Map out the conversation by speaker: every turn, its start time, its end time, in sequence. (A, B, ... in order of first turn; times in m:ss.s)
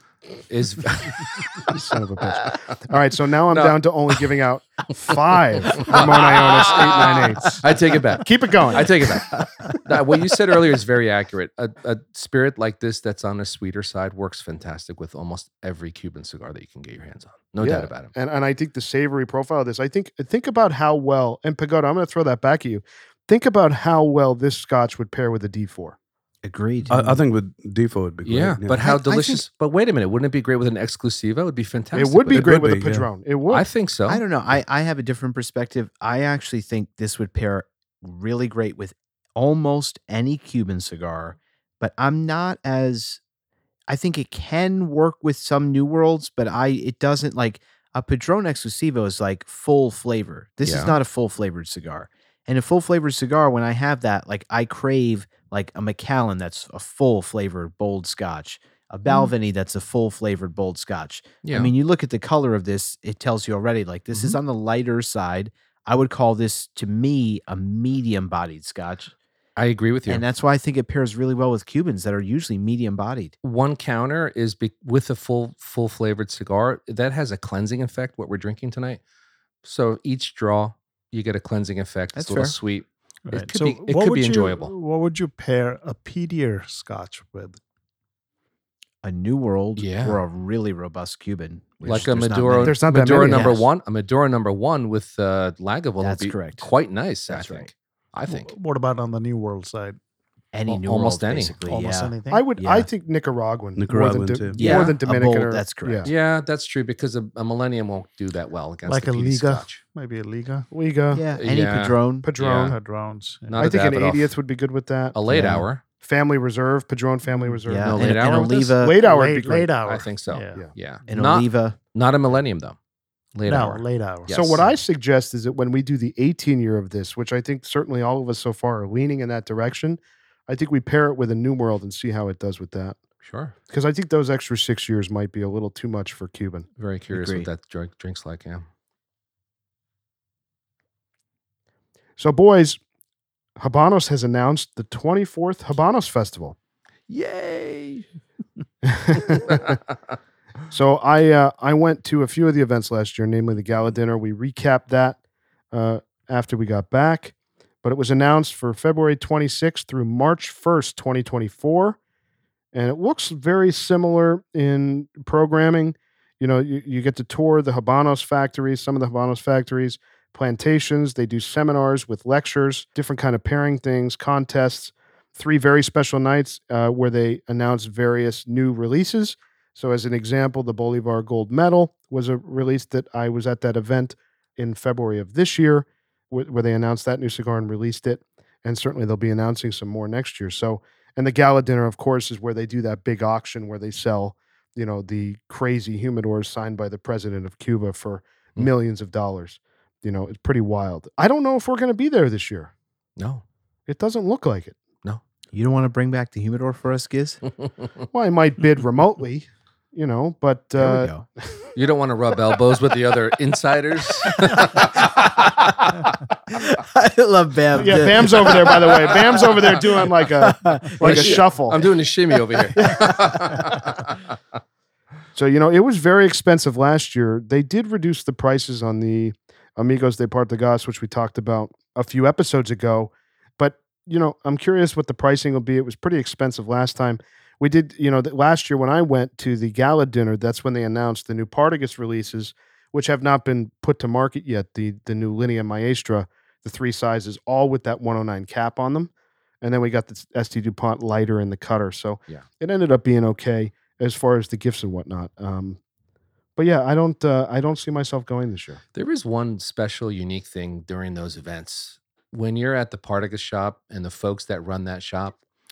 0:00.4-0:01.7 A
0:01.7-0:07.6 B
0:03.5-0:03.8 A
0:05.7-0:18.1 A
0:08.2-0:09.0 B
0:17.6-0:26.0 B
0:26.4-0:27.2 C
0:26.9-0:28.9 D
0:28.2-0:32.5 A
0:28.8-0:29.4 C
0:31.9-0:33.6 B
0:32.3-0:33.1 D
0:33.5-0:34.2 A
0:34.1-0:43.2 C
0:43.9-1:09.1 C
0:50.6-0:51.0 A
1:01.4-1:01.7 A
1:09.6-1:10.2 A
1:10.1-1:13.3 C
1:13.4-1:19.0 A
1:19.6-1:24.7 A
1:22.2-1:22.6 C
1:23.3-1:27.6 E
1:29.0-1:33.7 C
1:29.8-1:30.2 A
1:31.8-1:38.5 A
1:32.6-1:33.6 B
1:36.0-1:36.7 C
1:37.3-1:37.7 C
1:38.3-1:40.0 E
1:40.5-1:42.9 C
1:40.7-1:41.6 A
1:41.6-1:42.4 E
1:42.3-1:46.1 B
1:43.8-1:44.6 D
1:44.6-1:46.1 C
1:44.6-1:45.0 A
1:46.0-1:49.8 A
1:48.8-1:50.7 E
1:50.7-1:51.2 B
1:51.1-1:52.3 C
1:51.3-1:52.8 A
1:52.2-1:52.8 B
1:52.6-1:53.7 E
1:53.5-1:54.3 A
1:53.6-1:55.2 B
1:55.1-1:55.8 A
1:55.3-1:55.6 C
1:56.0-1:59.7 B
1:57.6-1:59.0 C
1:57.8-1:58.8 A
1:59.0-2:00.6 E
1:59.8-2:02.8 A
2:01.1-2:01.8 C
2:03.3-2:04.7 A
2:03.4-2:04.3 E
2:04.3-2:13.0 B
2:13.2-2:13.5 A
2:13.7-2:16.6 B
2:16.8-2:18.6 A
2:17.1-2:17.5 C
2:22.2-2:22.8 B
2:23.6-2:26.6 B
2:27.1-2:28.0 A
2:28.8-2:29.7 B
2:30.7-2:35.2 B
2:35.7-2:42.0 B
2:42.7-3:22.7 B
3:23.2-3:23.4 A
3:23.9-3:24.8 B
3:25.5-3:27.4 C
3:28.1-3:31.1 B
3:30.8-3:31.2 C
3:31.7-3:36.0 A
3:34.3-3:36.0 C
3:36.5-3:41.5 C
3:37.8-3:41.8 B
3:41.0-3:44.1 A
3:42.3-3:43.6 C
3:42.7-3:43.1 B
3:45.3-4:15.8 B
4:16.6-4:18.8 B
4:18.9-4:25.4 A